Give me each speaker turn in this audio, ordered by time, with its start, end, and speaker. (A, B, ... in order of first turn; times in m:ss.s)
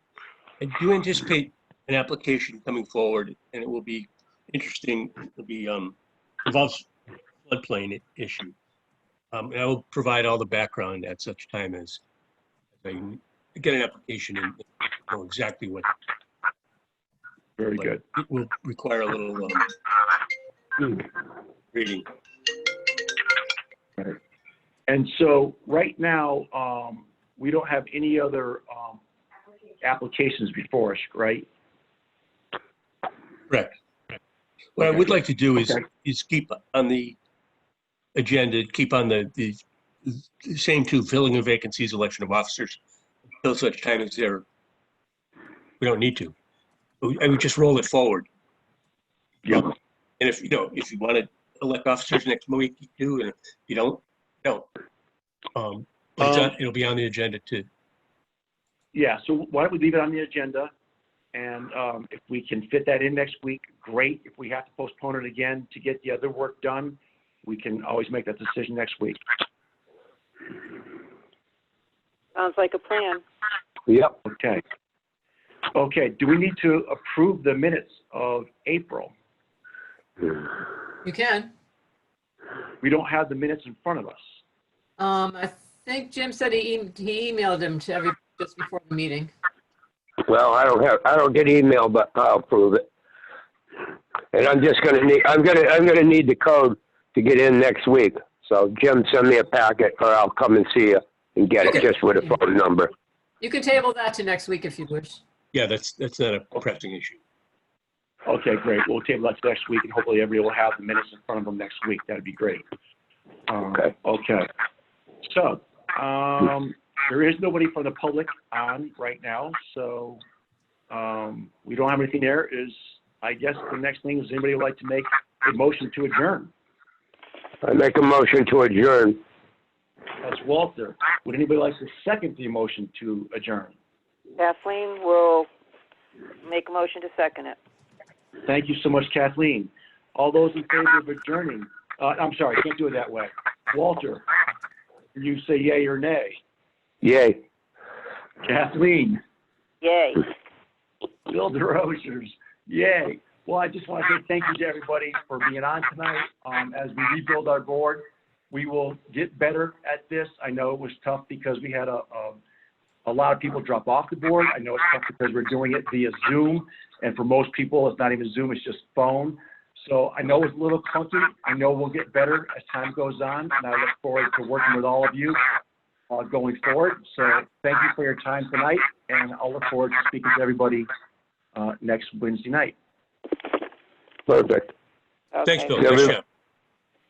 0:00.6-0:06.9 A
0:07.4-0:08.5 A
0:09.3-0:12.0 A
0:12.8-0:15.9 A
0:17.6-0:18.0 B
0:17.7-0:19.7 A
0:21.7-0:22.0 A
0:24.9-0:29.0 B
0:29.8-0:31.5 B
0:33.5-0:33.7 A
0:34.8-0:37.2 A
0:38.1-0:42.8 A
0:43.4-0:44.4 A
0:45.8-0:46.3 A
0:47.0-0:48.3 A
0:50.2-0:54.7 A
0:55.5-0:57.7 A
0:58.9-1:00.7 B
1:01.3-1:09.2 B
1:12.3-1:13.2 C
1:13.9-1:14.1 D
1:14.2-1:14.6 B
1:15.7-1:19.1 B
1:21.0-1:21.5 E
1:22.8-1:24.2 B
1:25.0-1:29.3 E
1:30.2-1:32.8 D
1:34.3-1:42.9 D
1:43.4-1:45.2 E
1:45.5-1:47.2 A
1:48.2-1:52.6 B
1:53.5-1:54.5 B
1:55.2-2:00.2 B
2:00.9-2:06.5 B
2:07.6-2:09.2 D
2:10.2-2:13.7 B
2:14.4-2:15.5 C
2:16.4-2:17.6 C
2:18.4-2:24.2 B
2:25.1-2:26.4 B
2:27.0-2:27.4 D
2:28.4-2:29.2 B
2:29.8-2:30.3 C
2:31.3-2:42.4 B
2:43.0-2:55.4 B
2:56.1-3:00.9 B
3:01.5-3:02.8 B
3:04.3-3:04.7 D
3:05.3-3:05.8 C
3:05.4-3:06.2 A
3:05.8-3:06.2 D